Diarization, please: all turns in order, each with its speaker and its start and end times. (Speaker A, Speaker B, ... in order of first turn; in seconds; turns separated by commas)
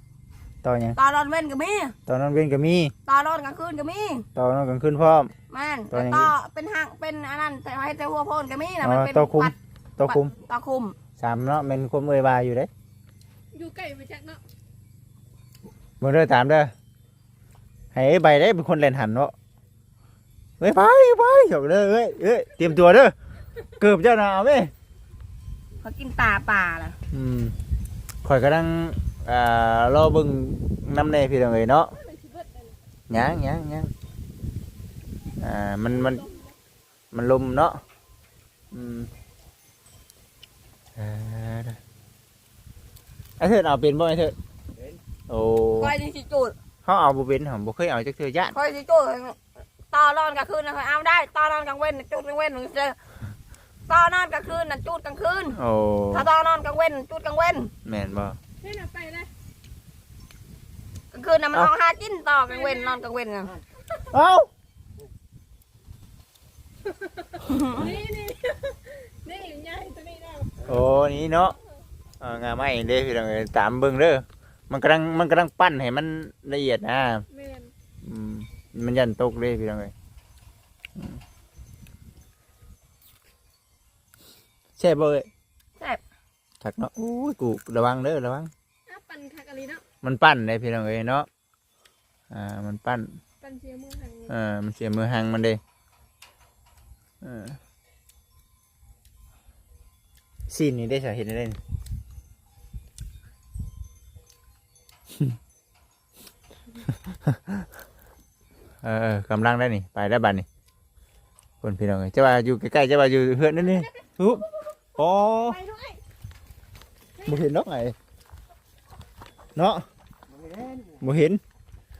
Speaker A: 0.6-1.0, Speaker B: 0.9-1.9, Speaker A: 2.1-2.9, Speaker B: 3.1-4.3, Speaker A: 4.3-5.3, Speaker B: 5.5-9.6, Speaker A: 5.9-6.3, Speaker A: 8.8-10.3, Speaker B: 10.1-10.9, Speaker A: 11.2-12.7, Speaker C: 13.5-14.4, Speaker A: 16.0-16.7, Speaker A: 17.9-19.3, Speaker A: 20.6-23.1, Speaker A: 23.8-24.7, Speaker B: 25.8-27.0, Speaker A: 27.1-27.5, Speaker A: 28.2-31.9, Speaker C: 31.9-32.8, Speaker A: 33.1-33.9, Speaker A: 35.4-36.2, Speaker C: 36.0-36.5, Speaker A: 37.1-37.8, Speaker A: 38.7-39.1, Speaker A: 41.0-41.8, Speaker A: 43.4-44.4, Speaker A: 45.3-46.0, Speaker B: 45.8-46.5, Speaker A: 46.8-48.5, Speaker B: 48.5-49.4, Speaker B: 49.9-53.0, Speaker B: 53.9-55.6, Speaker A: 55.6-56.3, Speaker B: 56.1-57.7, Speaker A: 57.9-58.4, Speaker C: 58.6-59.3, Speaker B: 61.1-63.5, Speaker C: 62.5-63.0, Speaker A: 64.1-64.5, Speaker C: 67.2-70.6, Speaker B: 67.4-67.9, Speaker A: 70.6-71.5, Speaker A: 72.2-77.2, Speaker C: 77.3-77.7, Speaker A: 78.0-79.9, Speaker A: 84.8-85.3, Speaker A: 86.6-88.5, Speaker C: 88.9-89.8, Speaker A: 90.0-91.3, Speaker A: 92.3-93.1, Speaker C: 93.4-94.3, Speaker A: 94.3-95.6, Speaker A: 97.2-97.6, Speaker A: 100.5-101.6, Speaker A: 107.3-107.5, Speaker A: 108.8-110.5, Speaker A: 111.6-114.4, Speaker A: 115.0-115.6, Speaker B: 115.5-116.0, Speaker A: 117.2-117.9, Speaker A: 119.5-119.8, Speaker A: 121.0-121.4